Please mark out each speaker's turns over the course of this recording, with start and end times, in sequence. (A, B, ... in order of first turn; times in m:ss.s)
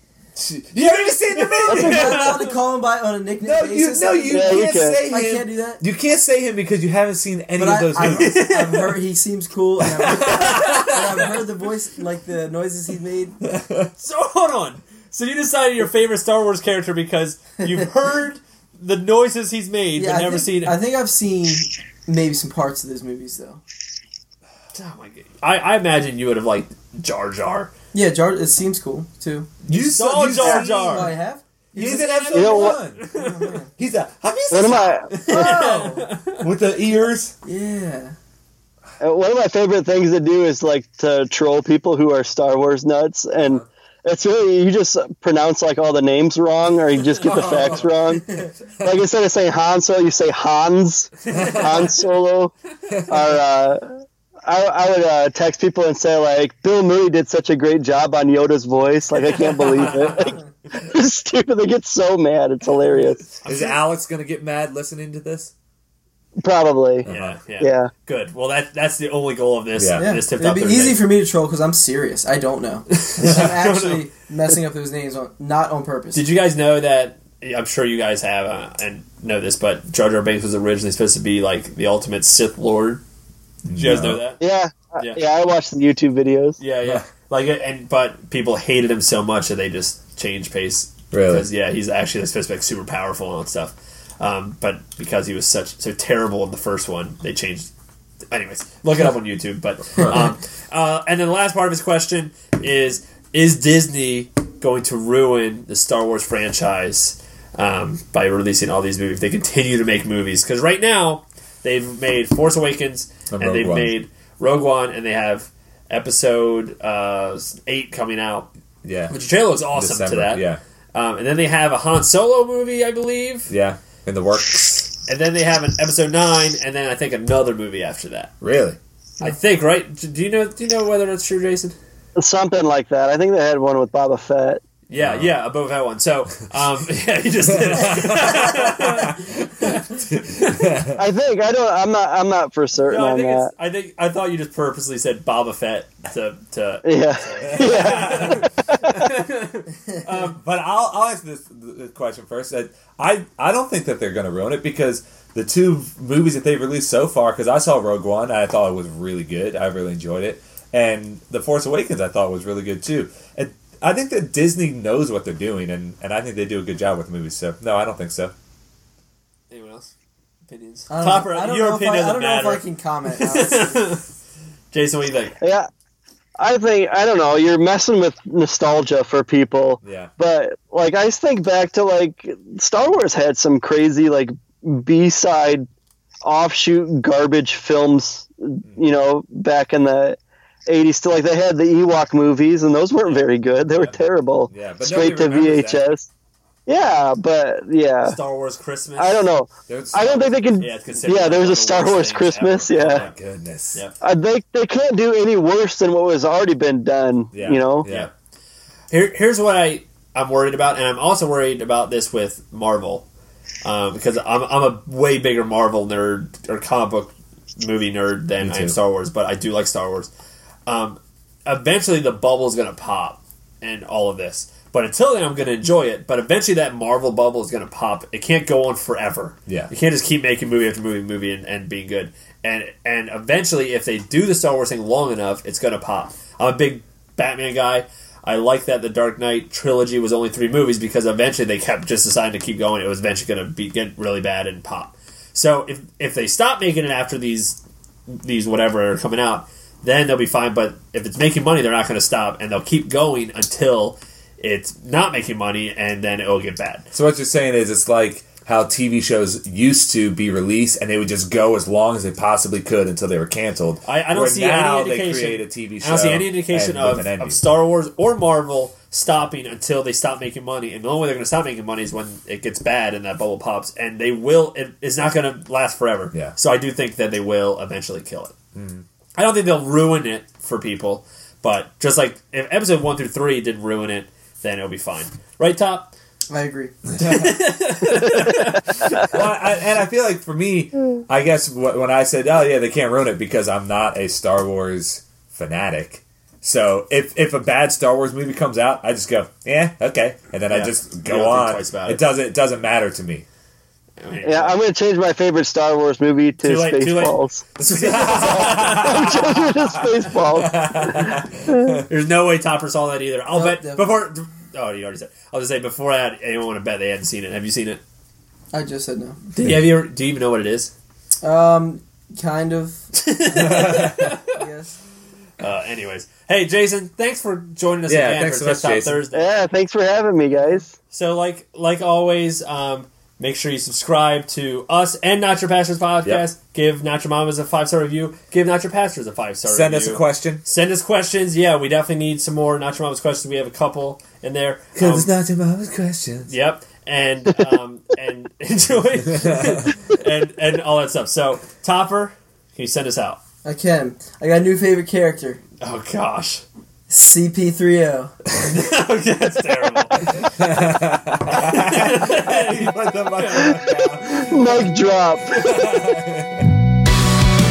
0:00.4-0:02.2 A
0:00.8-0:02.6 B
0:01.7-0:02.3 C
0:01.7-0:05.8 D
0:03.4-0:08.4 A
0:04.3-0:05.0 C
0:07.6-0:13.4 D
0:08.0-0:09.0 B
0:10.0-0:11.0 A
0:10.1-0:11.3 B
0:13.4-0:13.9 A
0:14.0-0:20.8 B
0:20.0-0:23.6 D
0:24.7-0:27.7 B
0:27.9-0:29.5 D
0:29.6-0:31.1 B
0:29.7-0:31.2 A
0:30.4-0:33.7 D
0:31.7-0:33.1 A
0:31.8-0:33.6 B
0:32.3-0:32.8 C
0:33.8-0:37.3 A
0:34.5-0:35.2 C
0:35.1-0:36.5 B
0:35.3-0:36.0 D
0:37.4-0:38.1 D
0:39.0-0:52.5 C
0:47.2-0:47.8 B
0:47.3-0:47.8 A
0:47.3-0:48.5 D
0:51.3-0:52.0 B
0:51.3-0:51.9 A
0:52.9-0:53.4 A
0:53.1-1:03.4 C
0:59.2-1:00.4 B
1:03.4-1:03.8 B
1:03.4-1:05.5 A
1:06.4-1:07.9 C
1:07.0-1:07.4 A
1:07.1-1:11.1 B
1:09.8-1:10.1 A
1:10.0-1:16.2 D
1:12.9-1:14.1 B
1:13.2-1:13.5 A
1:16.1-1:23.0 B
1:23.6-1:24.2 A
1:23.7-1:24.4 B
1:24.4-1:26.6 C
1:26.6-1:37.7 B
1:31.1-1:31.5 A
1:38.3-1:58.5 B
1:40.0-1:40.3 A
1:53.3-1:53.9 A
1:58.8-1:59.1 A
1:59.1-2:03.5 B
1:59.7-2:00.6 A
2:03.5-2:04.9 A
2:05.1-2:08.3 B
2:08.4-2:08.8 A
2:09.2-2:11.7 B
2:12.2-2:14.6 C
2:14.9-2:20.6 B
2:15.0-2:15.4 A
2:17.5-2:21.0 A
2:20.9-2:23.5 C
2:22.8-2:30.4 B
2:26.8-2:29.0 C
2:27.4-2:28.5 A
2:30.2-2:48.3 A
2:49.5-2:49.9 B
2:50.5-2:54.0 B
2:50.9-2:54.0 D
2:54.7-2:55.4 B
2:55.4-2:55.7 C
2:56.4-3:05.7 C
2:59.8-3:00.1 A
3:06.2-3:16.1 C
3:13.0-3:14.0 B
3:14.5-3:15.8 A
3:16.7-3:18.2 C
3:18.0-3:19.3 B
3:19.0-3:23.0 C
3:19.7-3:20.4 A
3:20.2-3:23.1 B
3:22.9-3:23.8 A
3:24.0-3:27.9 C
3:27.3-3:28.1 A
3:27.8-3:28.1 B
3:28.9-3:33.0 B
3:33.6-3:40.1 B
3:38.4-3:38.8 A
3:40.7-4:16.8 B
4:16.9-4:27.4 A
4:23.8-4:38.3 B
4:38.5-4:38.8 A
4:39.2-4:45.9 B
4:46.3-4:46.7 D
4:47.0-4:49.2 B
4:47.0-4:47.3 A
4:49.0-5:03.2 A
5:00.5-5:02.0 B
5:04.0-5:04.6 B
5:04.2-5:07.4 C
5:06.4-5:09.5 B
5:07.6-5:11.9 A
5:08.1-5:11.8 C
5:11.8-5:17.8 B
5:13.3-5:13.9 D
5:18.5-5:19.2 D
5:19.3-5:20.7 B
5:19.4-5:19.6 A
5:21.2-5:24.7 D
5:23.0-5:24.4 B
5:23.3-5:24.2 A
5:25.4-5:29.5 B
5:27.9-5:29.0 A
5:29.1-5:30.7 C
5:30.9-5:45.1 B
5:39.4-5:40.4 A
5:44.8-5:46.3 A
5:46.3-5:53.2 B
5:49.2-5:49.7 A
5:53.4-5:55.4 D
5:55.6-5:56.4 B
5:56.9-5:58.1 D
5:58.4-6:00.0 B
6:00.1-6:04.7 A
6:01.3-6:03.7 B
6:03.4-6:05.6 C
6:05.2-6:06.5 A